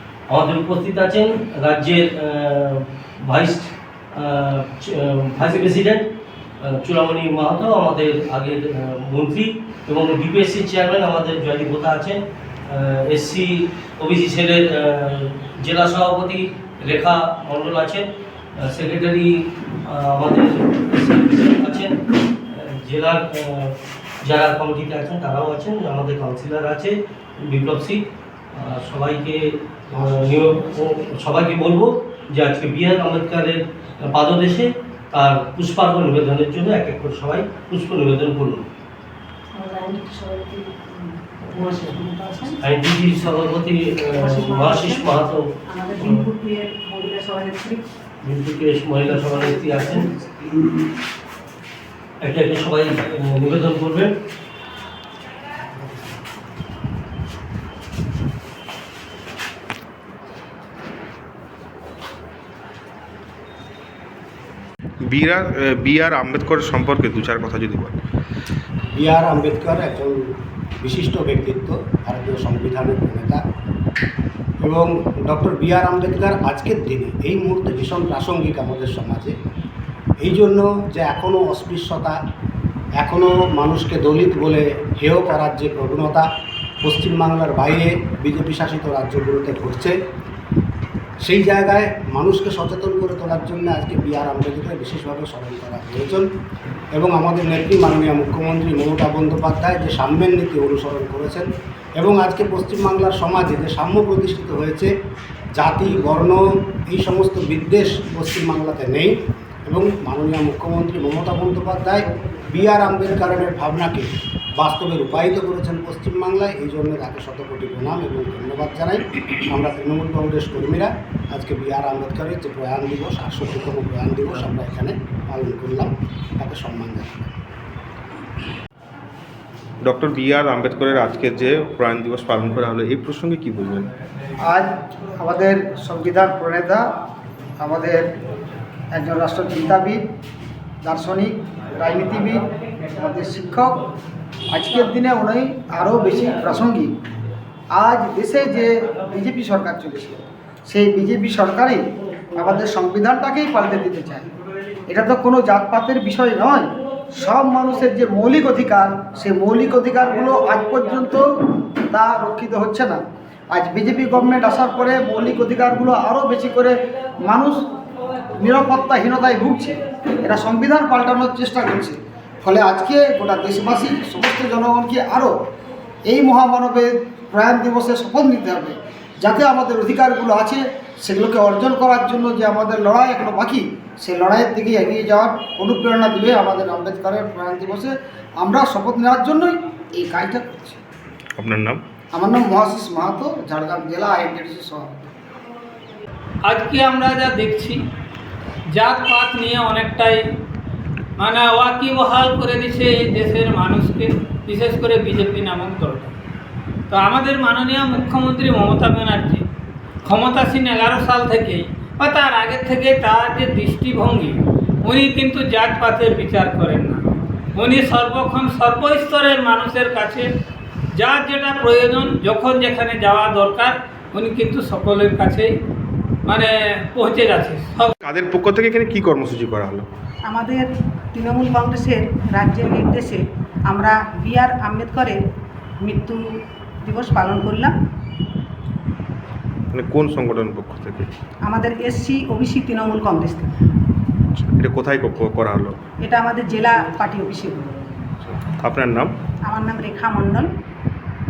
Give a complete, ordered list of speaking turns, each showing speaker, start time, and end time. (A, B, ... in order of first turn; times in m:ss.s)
0:00.3-0:06.1 A
0:06.6-0:22.0 A
0:22.5-0:38.6 A
0:39.5-0:42.6 B
0:42.6-0:46.2 A
0:44.1-0:45.1 B
0:45.6-0:47.8 B
0:48.2-0:50.1 A
0:49.1-0:50.7 B
0:52.2-0:54.2 A
1:05.0-1:08.0 C
1:08.9-1:10.2 D
1:10.8-1:13.4 D
1:14.6-1:19.3 D
1:20.2-1:22.2 D
1:23.0-1:26.2 D
1:26.8-1:29.9 D
1:31.2-1:36.2 D
1:36.9-1:44.9 D
1:45.6-1:49.1 D
1:49.7-2:07.3 D
2:09.8-2:13.9 C
2:14.4-2:16.9 E
2:17.6-2:18.1 E
2:18.9-2:20.0 E
2:20.8-2:23.8 E
2:24.5-2:26.9 E
2:27.7-2:31.8 E
2:32.3-2:34.3 E
2:34.9-2:41.2 E
2:41.8-2:43.0 E
2:43.5-2:47.6 E
2:48.4-2:55.3 E
2:56.0-3:10.8 E
3:11.4-3:11.8 C
3:12.1-3:15.1 E
3:16.4-3:17.8 F
3:18.7-3:20.2 F
3:21.2-3:26.1 F
3:26.9-3:29.4 F
3:30.0-3:40.3 F
3:41.0-3:45.5 F
3:46.3-3:47.9 F
3:48.0-3:49.8 C
3:50.3-3:55.2 B
3:55.8-3:56.2 B
3:56.8-3:57.7 B
3:59.7-4:01.1 C
4:01.4-4:03.5 B
4:04.4-4:05.7 C
4:06.0-4:07.7 B
4:08.6-4:09.1 C
4:09.5-4:10.5 B